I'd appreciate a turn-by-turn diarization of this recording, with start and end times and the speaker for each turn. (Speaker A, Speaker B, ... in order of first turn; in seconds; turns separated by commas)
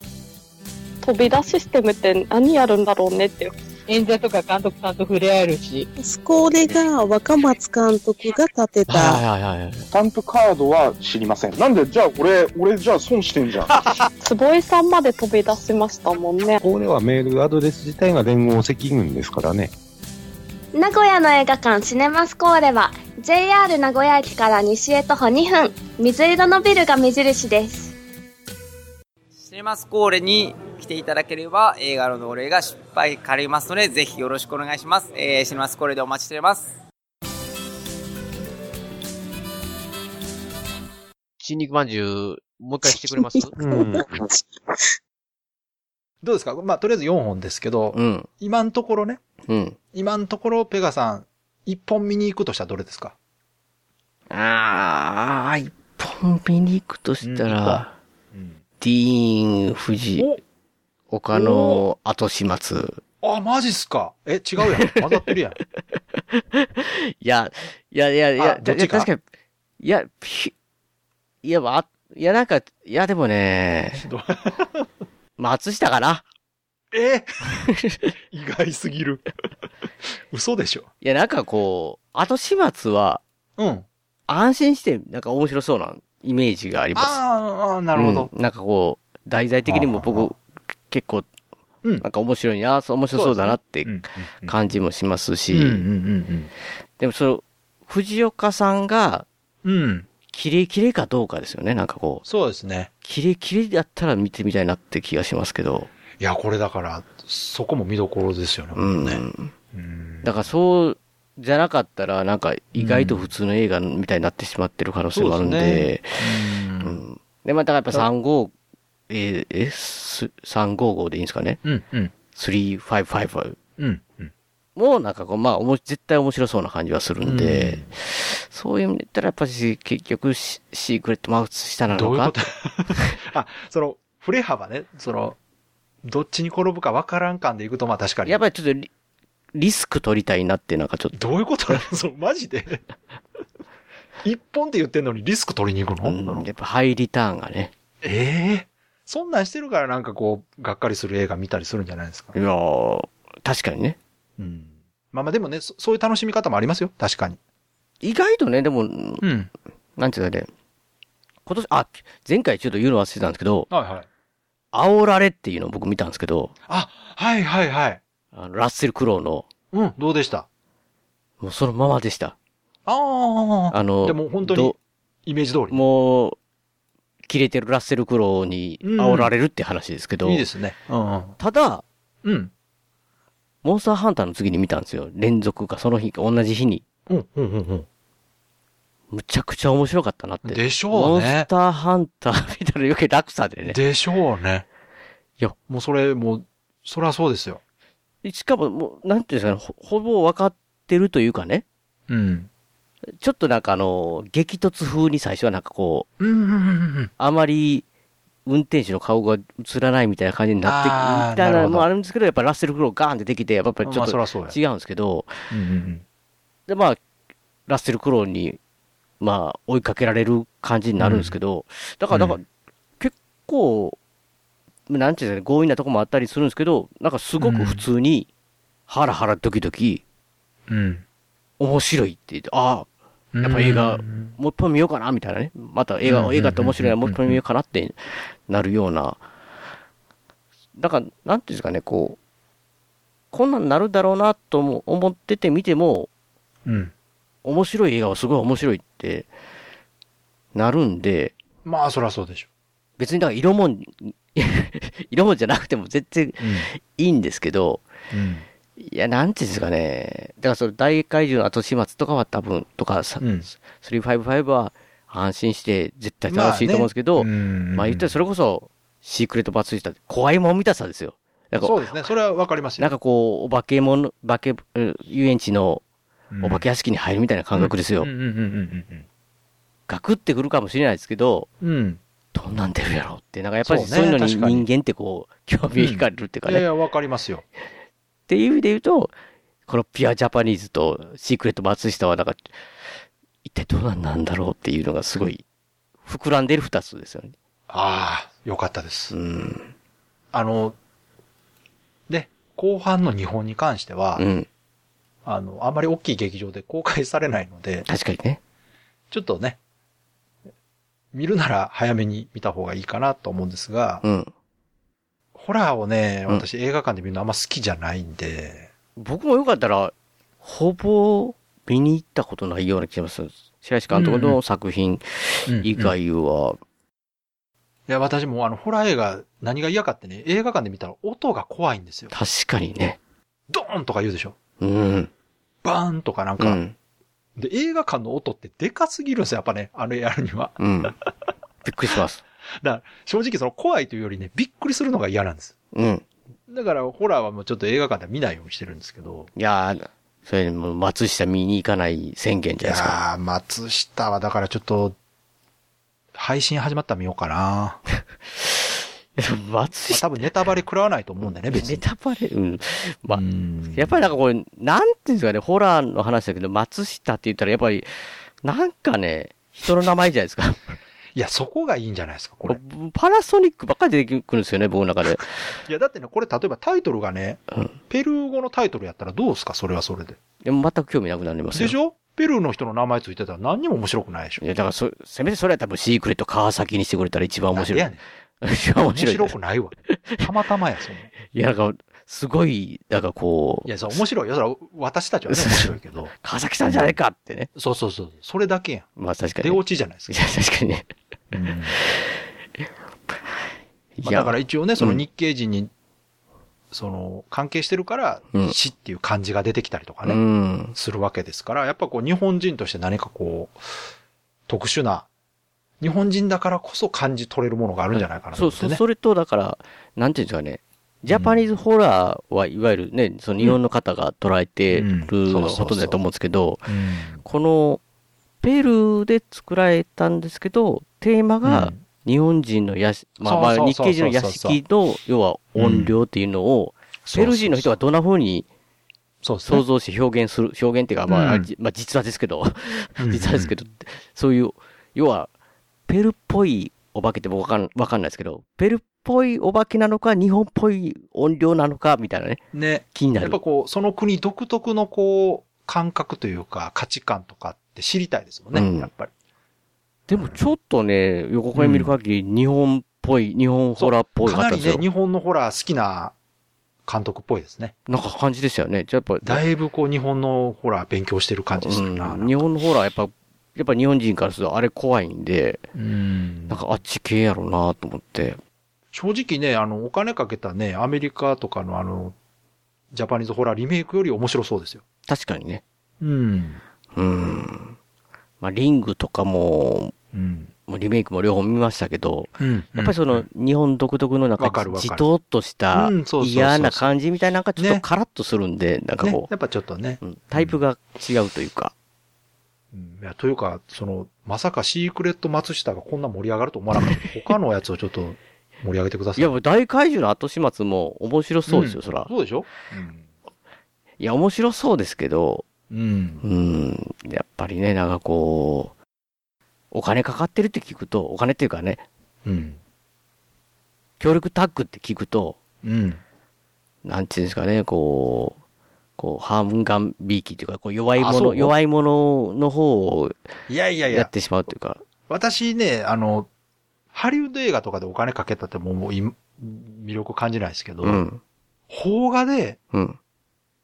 Speaker A: 1.0-3.5, Speaker B: 3.9-5.9, Speaker C: 6.0-9.2, Speaker D: 8.9-9.9, Speaker E: 9.9-13.9, Speaker A: 14.2-16.6, Speaker F: 16.6-19.7, Speaker G: 20.8-27.9, Speaker H: 29.4-36.7, Speaker I: 41.4-43.5, Speaker F: 43.6-44.1, Speaker J: 46.2-49.2, Speaker D: 47.9-48.3, Speaker D: 49.5-49.8, Speaker J: 49.9-53.1, Speaker D: 54.3-57.9, Speaker J: 57.2-58.6, Speaker D: 58.8-60.3, Speaker D: 61.1-63.0, Speaker J: 61.3-61.9, Speaker J: 63.2-65.6, Speaker D: 66.3-69.2, Speaker J: 68.4-69.1, Speaker D: 69.8-70.5, Speaker D: 71.4-74.1, Speaker J: 74.0-74.9, Speaker D: 75.4-76.2, Speaker J: 76.9-77.6, Speaker D: 77.7-78.1, Speaker J: 78.3-79.2, Speaker J: 80.3-80.9, Speaker D: 81.0-83.2, Speaker J: 83.6-83.9, Speaker D: 84.3-87.2, Speaker J: 87.0-88.3, Speaker D: 88.0-90.4, Speaker J: 89.7-90.3, Speaker D: 90.9-91.3, Speaker D: 92.0-95.9, Speaker J: 93.1-94.6, Speaker J: 95.5-96.5, Speaker D: 97.0-99.3, Speaker J: 99.6-100.1, Speaker D: 100.3-102.2, Speaker J: 102.2-102.9, Speaker D: 103.0-105.9, Speaker J: 106.2-110.3, Speaker D: 108.8-109.5, Speaker D: 110.2-118.5, Speaker J: 112.8-113.3, Speaker J: 115.1-117.0, Speaker D: 119.1-121.6, Speaker J: 121.6-122.1, Speaker D: 122.3-123.6, Speaker J: 123.8-124.3, Speaker D: 124.8-132.4, Speaker J: 127.2-127.9, Speaker J: 131.9-135.4, Speaker J: 136.0-138.4, Speaker D: 138.2-138.9, Speaker D: 139.6-141.2, Speaker J: 141.1-142.8, Speaker J: 144.2-146.5, Speaker D: 146.0-147.7, Speaker J: 148.0-152.3, Speaker D: 152.3-154.0, Speaker J: 154.4-157.4, Speaker D: 158.0-159.3, Speaker J: 159.2-159.5, Speaker D: 160.0-160.5, Speaker D: 161.5-163.7, Speaker J: 163.7-164.1, Speaker D: 164.7-166.5, Speaker J: 166.7-168.0, Speaker D: 168.3-169.5, Speaker J: 169.7-170.5, Speaker D: 171.4-172.3, Speaker J: 172.9-175.8, Speaker D: 173.7-174.8, Speaker D: 175.7-176.4, Speaker D: 177.3-180.4, Speaker J: 178.8-179.3, Speaker J: 180.2-181.4, Speaker D: 181.4-181.8, Speaker J: 182.2-182.5, Speaker D: 183.6-186.8, Speaker J: 187.1-187.9, Speaker D: 189.1-193.8, Speaker J: 190.4-191.5, Speaker J: 193.7-194.7, Speaker J: 195.7-197.6, Speaker D: 198.2-201.7, Speaker J: 202.1-202.5, Speaker D: 203.2-206.1, Speaker J: 206.2-207.1, Speaker D: 207.2-207.8, Speaker D: 208.5-215.5, Speaker J: 210.6-211.9, Speaker J: 213.8-214.6, Speaker J: 215.5-216.0, Speaker D: 216.7-217.0, Speaker D: 217.7-218.6, Speaker D: 219.2-222.4, Speaker J: 221.0-221.4, Speaker J: 222.1-222.4, Speaker D: 223.0-224.0, Speaker D: 224.9-228.3, Speaker J: 227.4-227.9, Speaker D: 228.9-230.0, Speaker J: 230.7-231.0, Speaker D: 231.6-232.9, Speaker J: 233.3-234.3, Speaker D: 233.4-239.2, Speaker J: 236.1-237.4, Speaker D: 240.8-242.2, Speaker D: 243.3-246.1, Speaker J: 246.7-246.9, Speaker D: 247.4-249.3, Speaker D: 250.6-251.3, Speaker J: 251.7-252.5, Speaker D: 253.0-257.8, Speaker J: 256.4-256.7, Speaker J: 258.1-258.5, Speaker D: 258.8-271.9, Speaker J: 263.2-263.5, Speaker J: 266.3-268.1, Speaker J: 271.6-272.9, Speaker D: 272.8-275.8, Speaker J: 276.3-276.6, Speaker D: 276.4-278.1, Speaker J: 277.5-279.1, Speaker D: 279.9-281.5, Speaker J: 281.6-282.0, Speaker D: 282.3-286.7, Speaker J: 283.6-284.7, Speaker J: 285.8-287.4, Speaker D: 288.3-289.1, Speaker D: 289.7-292.5, Speaker D: 293.4-295.4, Speaker D: 296.1-297.4, Speaker J: 297.7-299.1, Speaker D: 299.1-299.7, Speaker J: 300.3-300.8, Speaker J: 302.1-304.2, Speaker D: 304.2-304.5, Speaker J: 305.2-307.9, Speaker D: 307.9-308.4, Speaker J: 309.1-309.6, Speaker J: 311.1-314.0, Speaker D: 314.0-314.3, Speaker J: 315.4-318.7, Speaker D: 319.0-326.6, Speaker J: 323.9-324.4, Speaker J: 325.5-325.9, Speaker J: 327.9-332.1, Speaker D: 332.1-333.0, Speaker J: 333.5-334.4, Speaker D: 334.6-335.1, Speaker J: 335.6-336.6, Speaker D: 336.4-336.8, Speaker J: 337.4-340.6, Speaker D: 340.6-340.9, Speaker D: 341.6-342.2, Speaker J: 342.6-345.6, Speaker D: 345.7-346.1, Speaker J: 346.5-349.3, Speaker D: 349.4-353.0, Speaker J: 352.6-355.0, Speaker J: 356.1-357.8, Speaker D: 359.2-360.2, Speaker J: 359.9-361.8, Speaker D: 361.3-367.9, Speaker J: 363.1-364.1, Speaker D: 368.4-370.8, Speaker J: 371.1-372.6, Speaker D: 372.5-375.3, Speaker J: 375.2-380.2, Speaker D: 377.5-377.8, Speaker D: 380.4-381.8, Speaker J: 381.5-384.4, Speaker D: 384.4-387.9, Speaker J: 387.5-388.0, Speaker D: 388.4-389.3, Speaker J: 388.9-391.1, Speaker D: 389.9-390.2, Speaker D: 391.3-393.8, Speaker J: 393.7-396.1, Speaker D: 395.3-397.5, Speaker J: 396.7-396.9, Speaker J: 397.6-398.9, Speaker D: 399.0-400.9, Speaker J: 399.4-400.2, Speaker J: 401.3-401.8, Speaker D: 404.0-405.0, Speaker J: 404.0-405.7, Speaker J: 406.7-410.2, Speaker D: 410.1-410.8, Speaker J: 410.7-413.6, Speaker J: 414.5-415.1, Speaker J: 415.8-418.8, Speaker D: 417.9-426.7, Speaker J: 421.1-421.5, Speaker J: 424.7-426.0, Speaker J: 426.7-427.2, Speaker D: 427.2-427.8, Speaker D: 428.4-438.5, Speaker J: 431.4-431.8, Speaker J: 433.2-434.6, Speaker J: 435.6-435.9, Speaker J: 437.1-437.8, Speaker J: 439.2-439.6, Speaker D: 439.5-445.3, Speaker J: 441.1-441.5, Speaker J: 443.0-443.5, Speaker D: 445.9-452.4, Speaker J: 452.5-459.1, Speaker D: 452.9-453.4, Speaker D: 458.5-458.9, Speaker D: 460.1-464.9, Speaker J: 460.1-460.4, Speaker J: 461.6-461.9, Speaker J: 463.8-466.1, Speaker J: 466.9-467.8, Speaker D: 467.9-469.4, Speaker J: 469.2-472.4, Speaker D: 471.6-475.6, Speaker J: 475.7-476.6, Speaker D: 476.5-478.4, Speaker J: 478.9-482.1, Speaker J: 482.9-484.8, Speaker D: 485.1-485.6, Speaker J: 486.0-486.6, Speaker D: 486.9-487.8, Speaker D: 488.4-489.9, Speaker J: 490.1-490.5, Speaker D: 490.7-499.3, Speaker J: 492.4-493.3, Speaker J: 494.4-495.1, Speaker J: 495.7-496.9, Speaker J: 497.6-497.9, Speaker J: 499.0-500.6, Speaker D: 500.0-501.7, Speaker J: 502.7-509.3, Speaker D: 509.2-512.1, Speaker J: 511.5-513.1, Speaker D: 514.0-515.5, Speaker J: 515.7-516.2, Speaker D: 516.2-518.7, Speaker D: 519.7-521.8, Speaker J: 522.2-522.6, Speaker D: 524.0-525.4, Speaker J: 525.6-526.0, Speaker D: 526.9-528.4, Speaker D: 529.0-533.2, Speaker J: 531.0-531.5, Speaker J: 533.5-534.1, Speaker D: 533.9-534.8, Speaker J: 535.1-536.3, Speaker J: 536.9-541.0, Speaker D: 540.8-541.2, Speaker J: 541.7-542.6, Speaker D: 542.7-543.0